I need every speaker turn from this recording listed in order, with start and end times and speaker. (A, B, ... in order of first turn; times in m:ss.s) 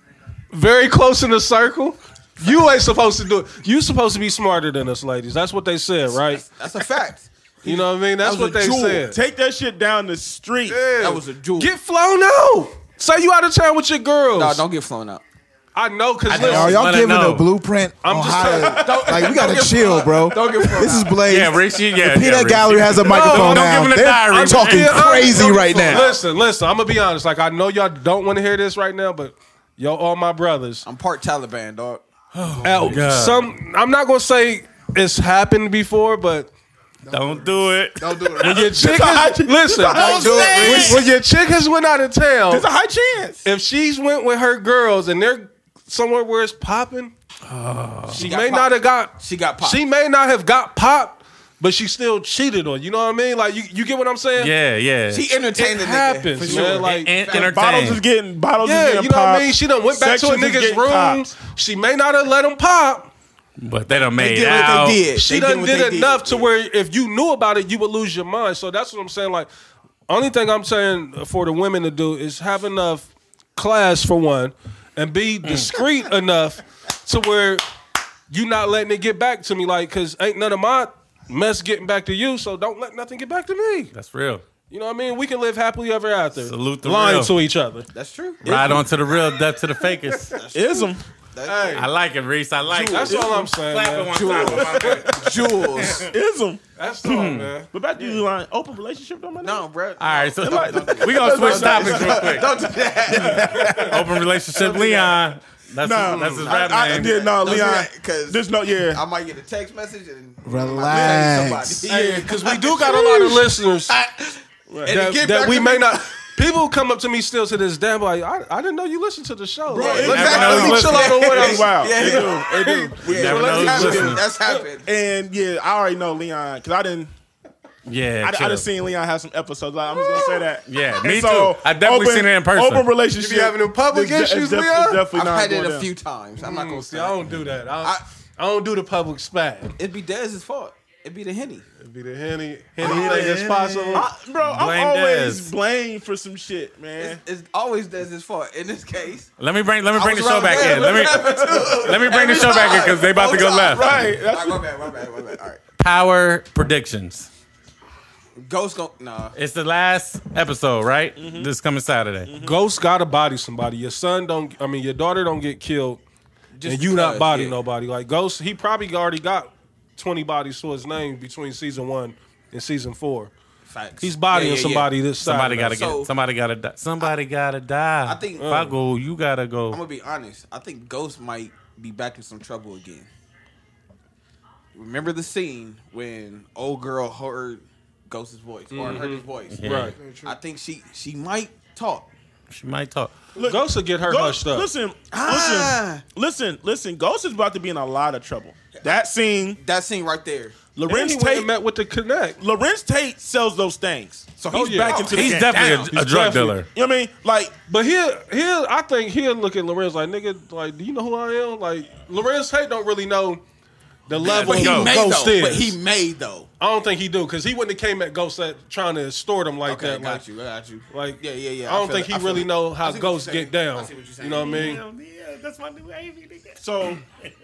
0:00.5-0:06.5 A
0:06.3-0:09.1 B
0:07.6-0:09.2 A
0:09.1-0:10.8 C
0:10.7-0:14.6 A
0:11.0-0:11.7 B
0:14.4-0:15.2 B
0:15.8-0:16.8 A
0:16.3-0:17.5 D
0:16.4-0:26.1 E
0:18.0-0:19.0 A
0:18.7-0:21.3 B
0:21.2-0:25.1 D
0:23.1-0:30.9 A
0:24.9-0:26.2 B
0:30.8-0:32.1 B
0:32.3-0:33.0 E
0:32.6-0:36.5 A
0:32.8-0:33.5 D
0:37.0-0:38.7 E
0:37.1-0:38.7 D
0:38.4-0:42.7 A
0:38.5-0:41.0 C
0:39.9-0:41.0 B
0:40.0-0:40.9 E
0:42.5-0:43.4 C
0:43.4-0:47.1 A
0:47.5-0:48.2 D
0:48.1-0:54.5 A
0:48.1-0:49.8 B
0:54.4-0:55.3 D
0:55.1-0:57.5 B
0:55.6-0:57.2 A
0:56.4-0:58.0 D
0:57.3-1:01.3 C
0:58.6-1:03.1 A
1:03.6-1:05.0 D
1:04.2-1:06.5 B
1:05.2-1:09.5 A
1:10.1-1:17.7 A
1:15.4-1:15.7 D
1:18.3-1:23.9 A
1:23.9-1:24.4 D
1:24.7-1:27.9 A
1:26.4-1:27.3 D
1:27.9-1:28.5 B
1:28.4-1:28.9 C
1:28.4-1:30.4 D
1:30.3-1:31.9 B
1:30.5-1:31.0 C
1:31.4-1:31.9 A
1:31.7-1:36.1 D
1:32.7-1:34.8 A
1:32.9-1:33.5 C
1:34.1-1:36.1 B
1:34.7-1:35.0 C
1:35.9-1:36.6 C
1:36.8-1:37.7 A
1:37.0-1:37.5 D
1:37.7-1:39.7 C
1:39.4-1:44.0 B
1:40.0-1:42.7 D
1:40.4-1:45.1 C
1:43.6-1:47.5 D
1:45.8-1:49.0 C
1:46.0-1:46.5 A
1:46.5-1:56.3 B
1:50.4-1:51.9 E
1:51.8-1:54.0 A
1:54.7-2:04.6 A
1:59.7-2:04.1 C
1:59.7-2:04.9 B
1:59.9-2:01.2 D
2:03.1-2:04.2 D
2:04.9-2:07.1 C
2:07.9-2:08.7 D
2:08.2-2:15.9 C
2:10.1-2:10.4 B
2:10.7-2:12.9 D
2:13.2-2:15.1 A
2:15.1-2:17.3 B
2:16.4-2:19.8 A
2:19.8-2:21.7 B
2:21.8-2:24.1 A
2:22.8-2:25.5 D
2:22.8-2:27.2 C
2:22.8-2:23.4 B
2:27.0-2:29.3 B
2:29.4-2:34.1 D
2:29.9-2:35.6 B
2:30.5-2:35.2 C
2:35.8-2:37.3 D
2:38.4-2:39.4 B
2:39.4-2:42.3 D
2:41.2-2:41.5 C
2:42.3-2:42.6 C
2:42.4-2:46.0 A
2:46.6-2:47.6 B
2:46.6-2:53.3 A
2:53.7-2:54.9 B
2:54.0-2:55.9 A
2:55.2-2:59.8 D
2:55.7-2:56.1 B
2:58.1-2:58.5 B
2:58.4-2:58.8 A
2:59.7-3:03.1 B
3:04.7-3:12.1 B
3:08.7-3:10.0 A
3:09.5-3:10.0 D
3:09.7-3:10.4 E
3:12.5-3:13.1 D
3:13.4-3:19.6 C
3:13.4-3:14.7 A
3:15.1-3:16.0 B
3:19.6-3:20.6 B
3:20.8-3:21.5 C
3:20.9-3:22.4 A
3:22.4-3:25.9 C
3:24.4-3:25.8 B
3:24.5-3:26.6 A
3:25.1-3:26.7 D
3:26.7-3:27.6 C
3:27.7-3:33.4 A
3:34.1-3:35.8 A
3:34.2-3:34.9 D
3:34.2-3:36.5 B
3:36.6-3:40.2 A
3:39.7-3:44.8 B
3:40.9-3:44.8 A
3:44.5-3:46.6 D
3:46.6-3:47.0 C